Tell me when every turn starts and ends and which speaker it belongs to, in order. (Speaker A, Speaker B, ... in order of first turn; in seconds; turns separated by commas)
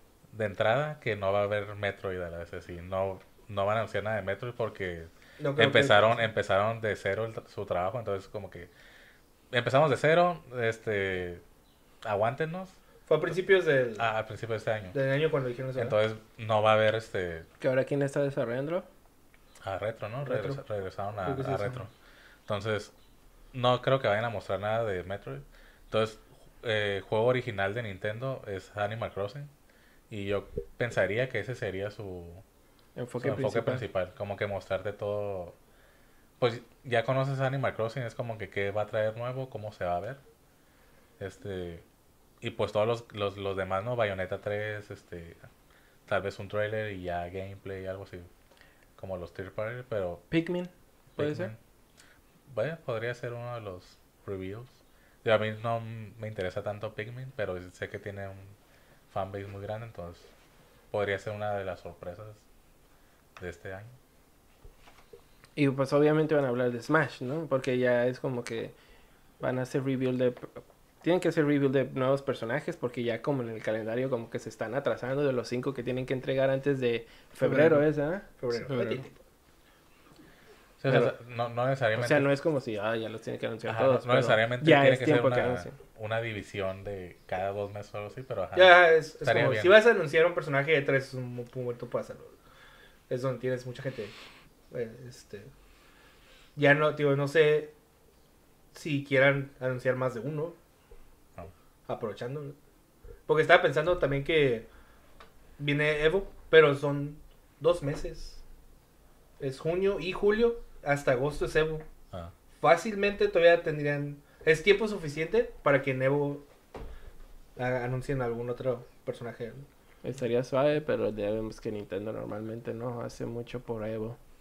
Speaker A: 0.3-8.7, Speaker B: 5.4-6.2, Speaker A: 9.5-11.4, Speaker A: 12.0-12.8, Speaker B: 13.1-14.1, Speaker A: 14.0-14.9, Speaker B: 14.9-15.9, Speaker A: 15.8-17.5, Speaker C: 17.6-18.9, Speaker A: 19.6-21.9, Speaker B: 20.2-20.6, Speaker B: 21.2-21.8, Speaker A: 22.5-22.9, Speaker A: 23.5-29.5, Speaker A: 30.1-32.4, Speaker C: 33.0-33.8, Speaker A: 33.2-35.5, Speaker A: 36.4-40.2, Speaker A: 41.2-41.8, Speaker A: 42.4-45.4, Speaker A: 46.0-48.3, Speaker A: 49.0-50.2, Speaker C: 50.3-51.5, Speaker A: 51.1-51.6, Speaker A: 52.5-58.5, Speaker A: 59.1-60.3, Speaker A: 60.9-62.4, Speaker A: 63.4-64.0, Speaker C: 65.5-68.7, Speaker C: 69.4-79.1, Speaker B: 77.4-79.1, Speaker A: 80.8-82.3, Speaker C: 82.0-85.8, Speaker A: 83.7-89.8, Speaker B: 88.5-92.3, Speaker B: 93.1-94.1, Speaker B: 94.7-95.5, Speaker B: 96.5-97.7, Speaker B: 98.7-100.5, Speaker B: 101.9-102.5, Speaker B: 103.3-104.7, Speaker B: 105.6-108.4, Speaker B: 109.4-111.8, Speaker B: 112.6-116.4, Speaker B: 117.5-119.7, Speaker C: 120.0-124.2